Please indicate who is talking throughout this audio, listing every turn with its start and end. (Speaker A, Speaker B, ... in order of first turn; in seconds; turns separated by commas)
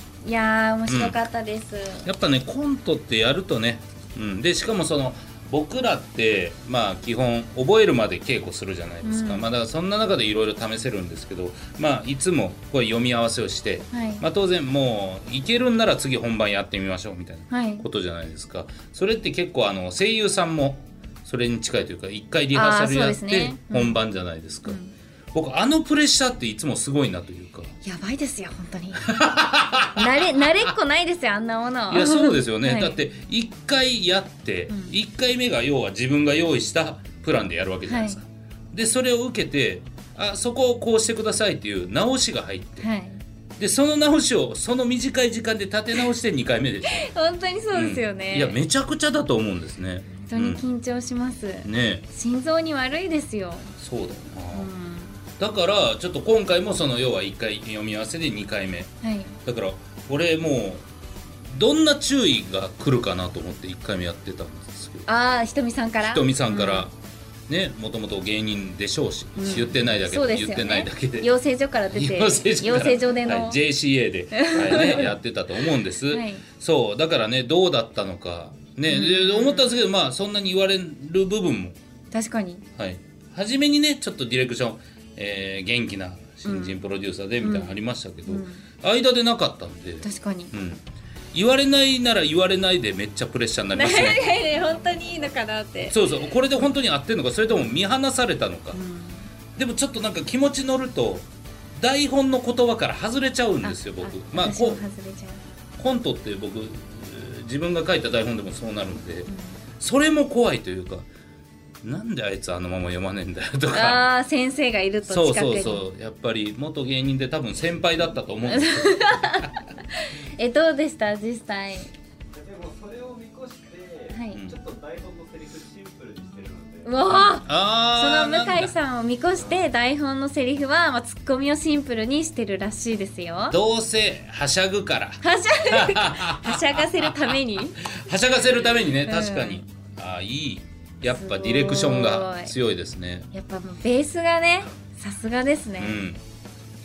Speaker A: 0.2-2.1, Speaker B: 0.9-1.2, Speaker B: 2.0-24.8, Speaker A: 9.0-9.5, Speaker A: 13.9-14.2, Speaker A: 17.5-17.9, Speaker A: 22.5-24.0, Speaker A: 24.7-24.9, Speaker B: 25.3-27.7, Speaker A: 27.8-29.2, Speaker B: 29.1-30.7, Speaker A: 29.9-33.0, Speaker B: 31.9-42.9, Speaker A: 34.7-35.0, Speaker A: 37.9-38.2, Speaker A: 42.8-43.2, Speaker B: 43.6-47.1, Speaker A: 46.9-48.6, Speaker B: 47.7-50.6, Speaker A: 50.2-53.7, Speaker B: 51.6-52.1, Speaker B: 53.8-54.7, Speaker A: 54.5-55.2, Speaker B: 55.4-58.9, Speaker A: 59.0-59.4, Speaker B: 59.5-60.9, Speaker B: 61.5-65.1, Speaker A: 65.1-66.9, Speaker B: 66.0-66.9, Speaker B: 67.5-71.3, Speaker A: 69.4-73.6, Speaker B: 71.9-81.8, Speaker A: 74.3-75.2, Speaker A: 76.1-76.5, Speaker A: 78.9-79.7, Speaker A: 82.1-82.7, Speaker B: 82.8-94.2, Speaker A: 86.5-86.8, Speaker A: 87.4-87.8, Speaker A: 88.3-88.6, Speaker A: 90.0-90.5, Speaker A: 93.7-96.0, Speaker B: 95.9-98.8, Speaker A: 98.7-99.3, Speaker B: 99.6-104.8, Speaker A: 103.6-105.4, Speaker B: 105.8-111.1, Speaker A: 109.3-109.6, Speaker B: 111.8-114.0, Speaker A: 113.7-115.8, Speaker B: 115.1-119.6, Speaker A: 118.5-121.9, Speaker C: 122.3-127.1, Speaker A: 124.1-124.4, Speaker A: 126.8-133.6, Speaker B: 127.1-128.7, Speaker C: 129.4-129.6, Speaker B: 133.5-143.3, Speaker A: 135.2-137.8, Speaker A: 139.1-139.7, Speaker A: 141.1-142.5, Speaker A: 143.3-146.0, Speaker B: 145.8-146.2